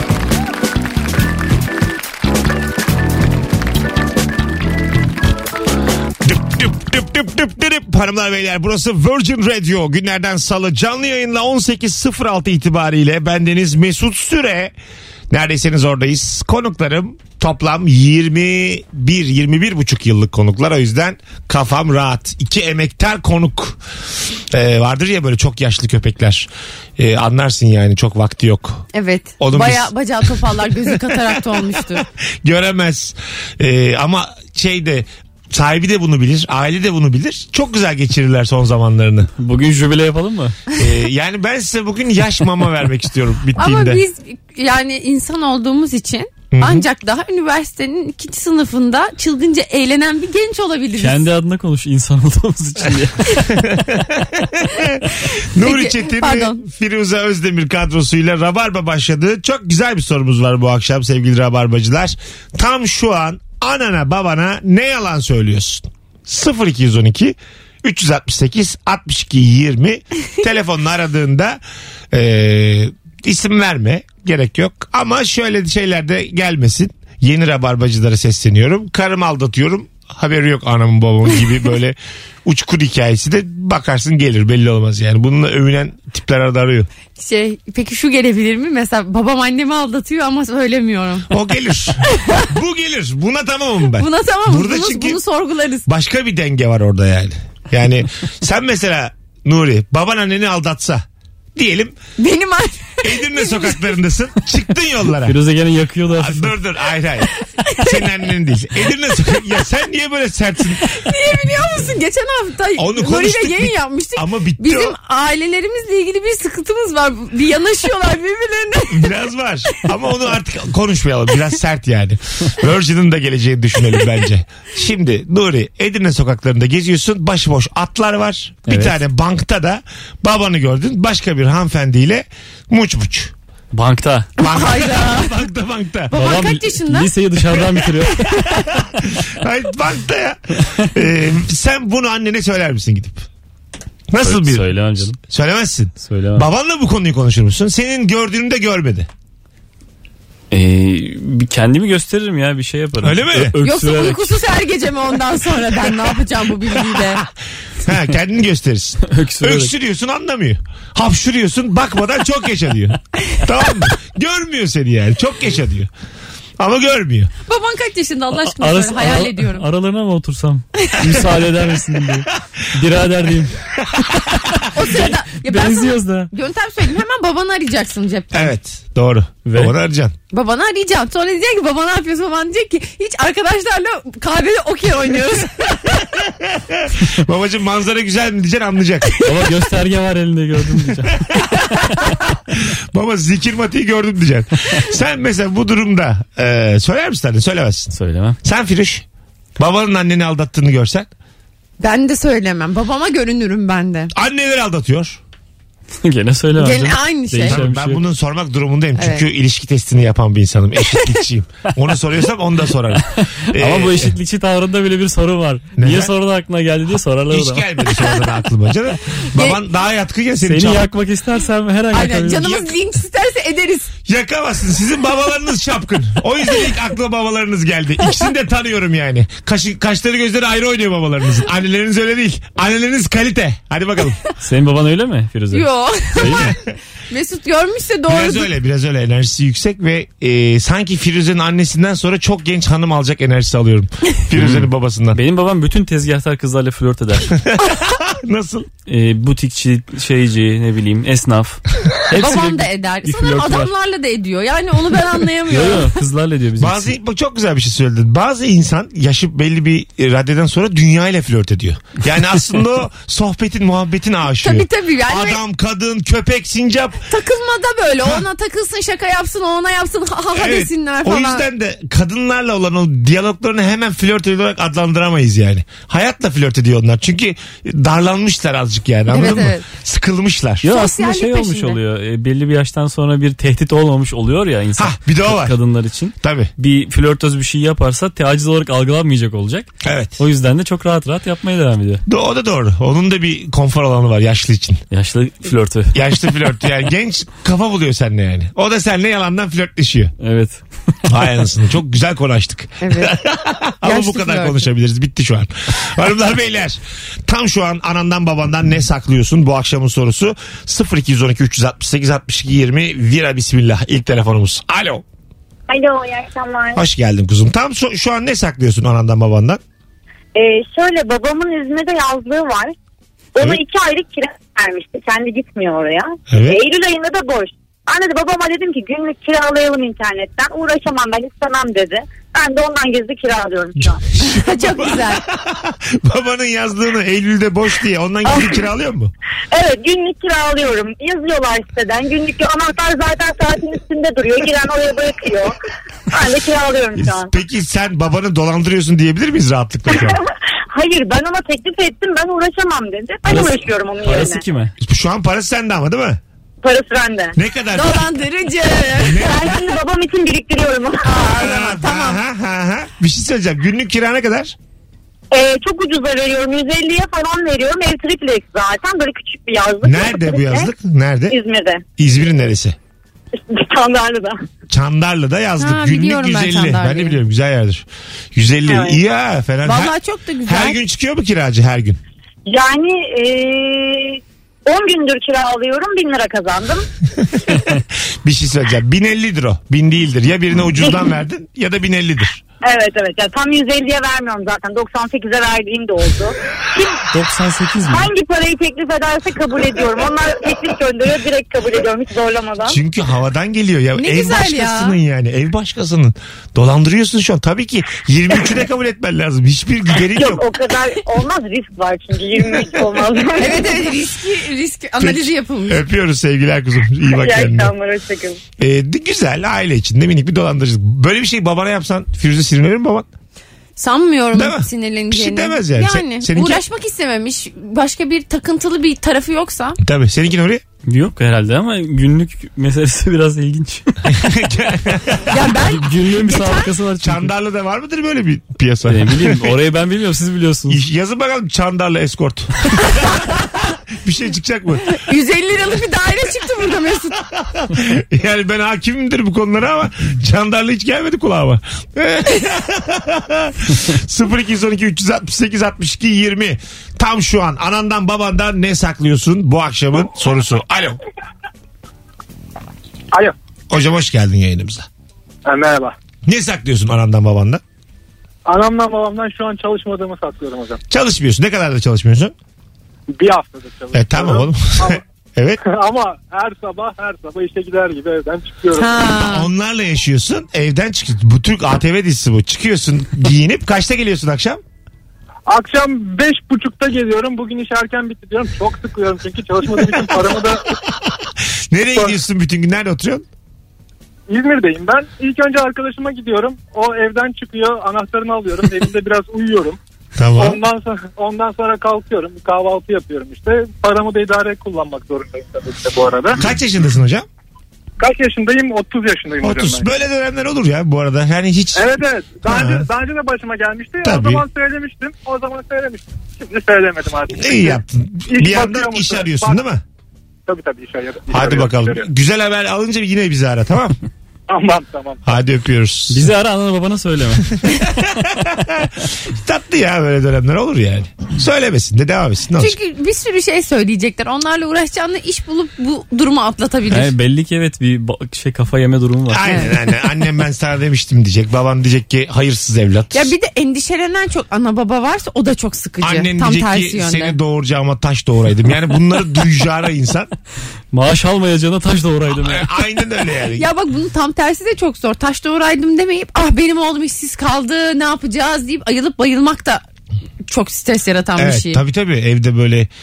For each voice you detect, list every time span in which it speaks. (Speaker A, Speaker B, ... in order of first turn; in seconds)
Speaker A: 6.2-14.7, 15.3-23.8, 24.5-28.9, 29.4-39.3, 40.8-44.0, 46.5-46.9, 53.5-71.6, 72.1-86.9, 91.3-95.2, 95.9-102.0, 103.0-105.4, 106.1-110.8, 112.8-115.0, 118.9-133.3, 134.4-136.2, 138.3-143.3, 144.1-149.1, 153.0-153.6, 156.9-157.3, 157.8-165.9, 166.6-167.3, 173.8-174.2, 178.3-180.2, 185.9-189.2, 191.1-191.6, 192.5-199.0, 199.6-201.1, 204.1-205.2, 207.5-214.2, 215.8-216.1, 217.3-220.9, 222.4-222.7, 224.1-234.2, 236.2-236.6, 238.1-245.2, 247.3-248.7, 256.6-267.1, 270.4-280.7, 284.8-285.6, 286.2-286.5, 289.8-290.2, 292.1-294.8, 295.9-300.1, 301.1-315.1, 316.8-319.6, 326.3-326.6, 333.8-339.1, 347.0-350.2, 354.8-356.2, 357.4-358.0, 359.0-359.6, 361.3-364.6, 369.8-371.4, 372.0-372.8, 374.7-382.0, 387.2-392.4, 402.7-410.4, 415.0-417.7, 418.6-423.1, 424.3-426.6, 429.8-430.6, 434.1-435.6, 437.0-439.6, 440.7-445.0, 447.2-461.0, 463.7-464.9, 466.3-467.6, 470.9-472.3, 473.9-475.6, 479.2-484.6, 489.9-490.4, 491.7-493.3, 500.2-500.6, 506.4-507.3, 509.4-512.9, 514.0-514.4, 517.3-519.8, 521.3-524.0, 525.2-526.3, 527.6-532.8, 539.3-543.3, 546.0-550.3, 552.3-553.7, 561.4-562.9
Speaker B: 28.9-32.0, 43.6-51.2, 55.1-56.6, 87.2-91.3, 92.1-92.5, 94.0-95.9, 102.2-103.8, 107.6-108.0, 109.1-109.5, 110.8-119.1, 134.4-135.4, 136.1-137.1, 153.6-157.2, 167.5-169.6, 170.8-171.2, 174.7-178.5, 180.3-186.0, 201.8-204.1, 206.6-207.6, 209.0-209.3, 221.9-223.9, 235.5-236.5, 237.1-238.5, 252.1-256.0, 264.4-265.4, 267.1-271.5, 279.1-279.6, 280.6-281.8, 302.8-303.2, 303.8-304.7, 334.2-335.2, 357.7-359.3, 361.0-362.2, 375.6-377.2, 379.6-380.8, 404.0-405.0, 413.4-415.8, 423.8-429.8, 435.3-436.7, 444.9-447.2, 478.7-479.5, 532.6-537.1, 539.4-539.7, 543.1-547.4, 553.6-559.8, 560.5-561.8
Speaker C: 39.4-40.6, 51.0-53.7, 105.2-106.5, 128.7-129.0, 133.7-134.3, 136.1-138.7, 144.2-145.2, 146.0-146.5, 150.5-154.4, 159.1-159.7, 168.4-176.3, 179.5-179.7, 189.2-191.9, 197.9-198.4, 206.0-208.0, 212.9-217.7, 220.4-222.6, 234.4-236.5, 244.3-247.3, 248.9-253.7, 255.5-256.9, 280.6-292.0, 294.9-296.3, 300.2-301.3, 353.3-354.7, 397.1-398.1, 430.9-434.1, 435.8-437.3, 438.9-440.8, 526.1-527.6, 536.9-539.6, 550.9-552.7
Speaker D: 315.7-316.8, 320.4-322.8, 323.4-334.0, 339.5-345.5, 346.1-347.3, 349.9-354.4, 356.6-357.4, 359.2-361.0, 365.3-370.7, 371.3-371.8, 373.3-374.4, 382.5-386.9, 392.6-397.1, 397.9-402.8, 410.1-413.7, 417.1-418.4
Speaker E: 465.5-465.9, 468.5-470.8, 473.2-475.0, 475.6-479.1, 485.5-490.7, 494.3-499.8, 500.4-506.4, 508.0-509.9, 511.7-519.6, 520.5-522.1, 524.5-525.2